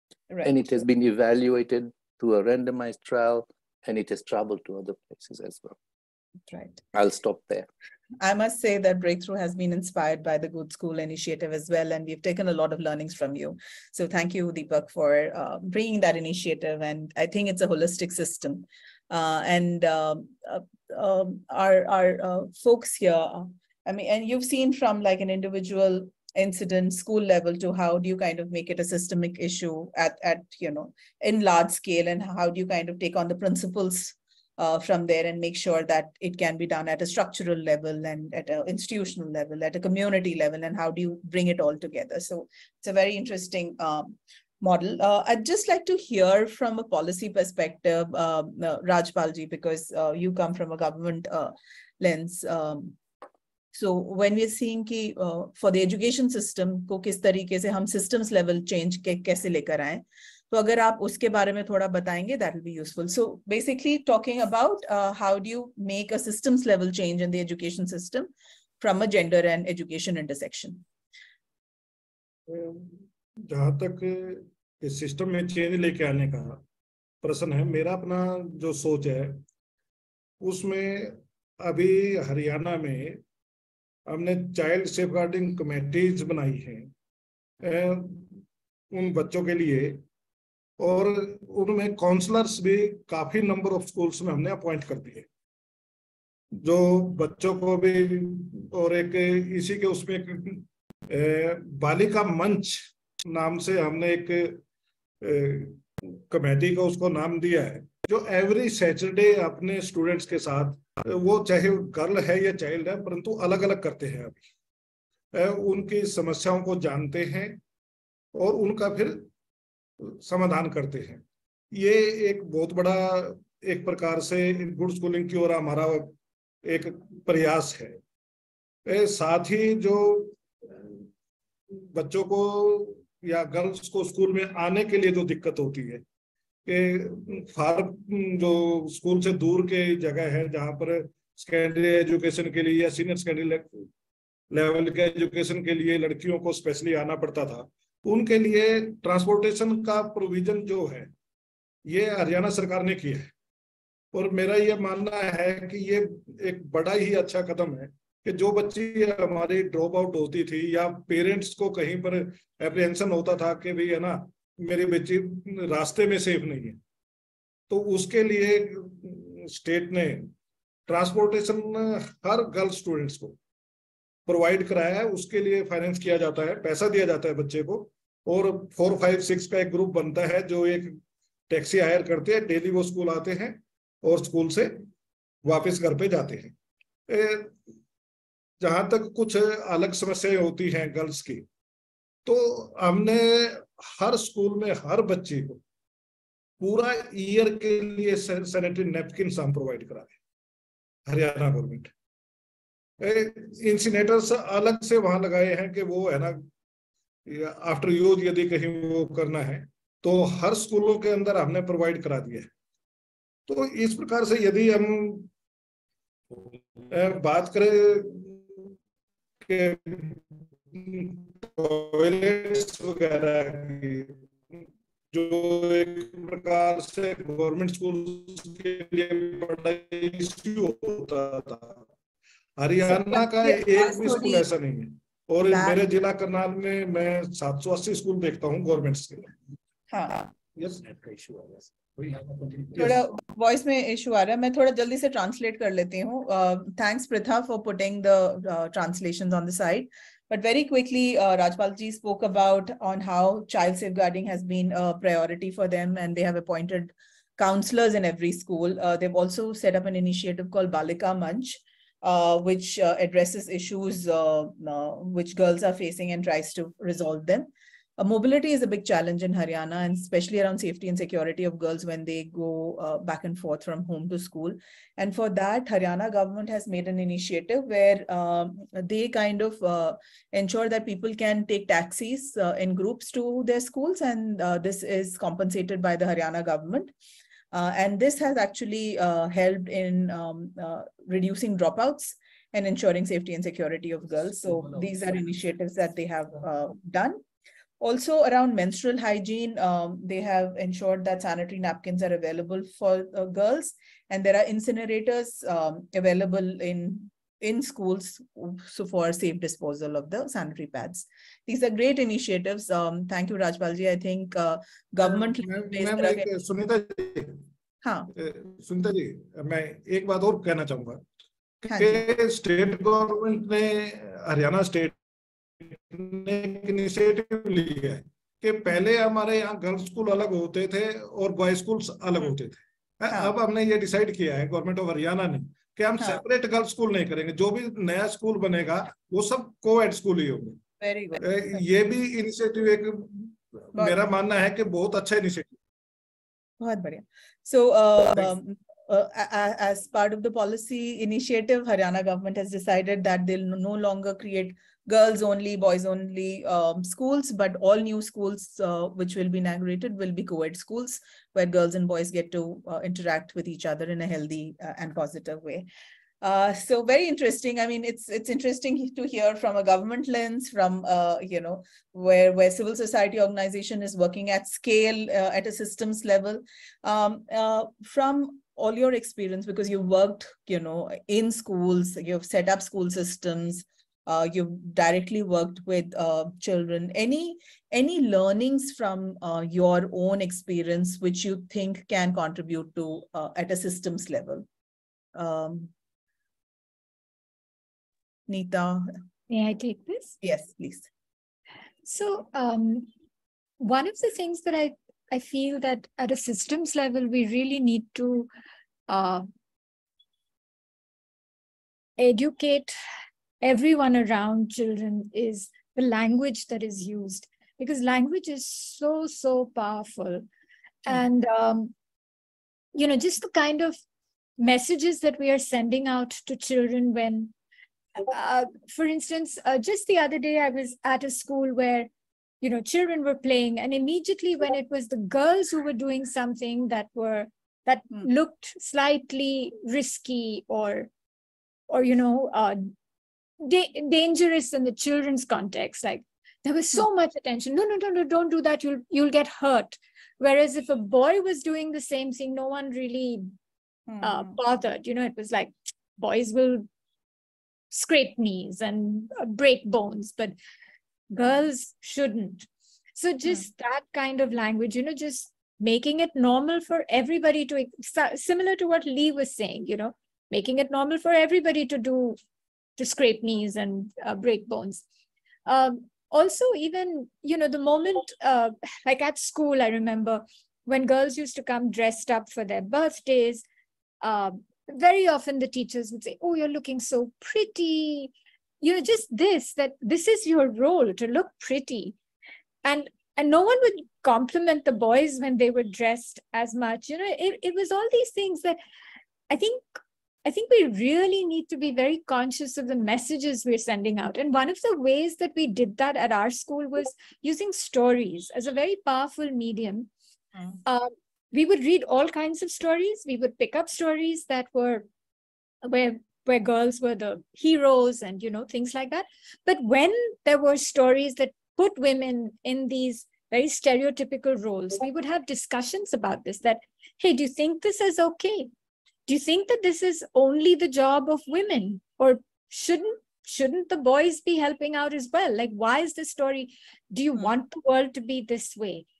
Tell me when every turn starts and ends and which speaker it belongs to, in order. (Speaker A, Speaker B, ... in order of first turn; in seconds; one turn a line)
Speaker A: 0.3-0.7
Speaker B: 0.4-5.8
Speaker A: 6.5-6.8
Speaker B: 6.9-7.7
Speaker A: 8.2-53.0
Speaker A: 53.7-70.8
Speaker C: 72.5-76.6
Speaker C: 77.2-79.4
Speaker C: 80.4-83.2
Speaker C: 84.1-86.9
Speaker C: 87.6-90.0
Speaker C: 90.8-95.3
Speaker C: 96.6-104.6
Speaker C: 105.2-114.4
Speaker C: 115.3-117.6
Speaker C: 118.3-119.3
Speaker C: 120.0-121.2
Speaker C: 121.7-128.0
Speaker C: 128.8-131.1
Speaker C: 131.9-136.0
Speaker C: 136.7-143.8
Speaker C: 144.5-151.1
Speaker C: 151.9-153.3
Speaker C: 154.1-166.8
Speaker C: 167.7-170.3
Speaker C: 170.9-173.3
Speaker C: 174.3-181.0
Speaker C: 181.5-184.7
Speaker C: 185.4-186.5
Speaker C: 187.1-187.6
Speaker C: 188.6-191.4
Speaker C: 192.2-195.6
Speaker C: 196.6-200.1
Speaker C: 201.1-201.9
Speaker C: 203.0-206.5
Speaker C: 207.2-212.5
Speaker C: 213.5-215.3
Speaker C: 216.4-218.7
Speaker C: 219.4-224.5
Speaker C: 225.1-231.8
Speaker C: 232.6-239.3
Speaker A: 232.9-234.5
Speaker A: 235.5-235.8
Speaker A: 239.9-240.3
Speaker C: 240.5-243.0
Speaker A: 242.8-286.9
Speaker A: 287.5-297.2
Speaker A: 297.8-316.3
Speaker C: 315.0-317.4
Speaker A: 317.8-318.1
Speaker C: 318.1-321.0
Speaker A: 321.7-322.0
Speaker C: 321.7-324.9
Speaker C: 325.6-340.6
Speaker A: 340.8-341.6
Speaker C: 341.2-345.6
Speaker A: 346.6-365.7
Speaker A: 366.2-394.4
Speaker A: 395.1-395.7
Speaker A: 398.3-398.9
Speaker D: 399.3-400.2
Speaker A: 400.2-400.9
Speaker D: 401.8-402.9
Speaker D: 403.6-408.3
Speaker D: 408.9-409.2
Speaker D: 412.0-412.8
Speaker D: 413.4-420.2
Speaker D: 420.9-421.7
Speaker D: 422.7-423.8
Speaker D: 424.4-427.3
Speaker D: 428.1-431.9
Speaker D: 432.4-440.9
Speaker D: 441.7-442.7
Speaker D: 443.4-453.3
Speaker A: 453.9-454.4
Speaker D: 454.0-456.7
Speaker D: 457.7-460.4
Speaker D: 461.1-472.2
Speaker D: 472.8-474.8
Speaker D: 475.4-483.4
Speaker D: 484.0-491.9
Speaker D: 492.6-498.6
Speaker D: 499.3-509.9
Speaker D: 510.6-514.9
Speaker D: 515.6-528.5
Speaker D: 529.1-538.9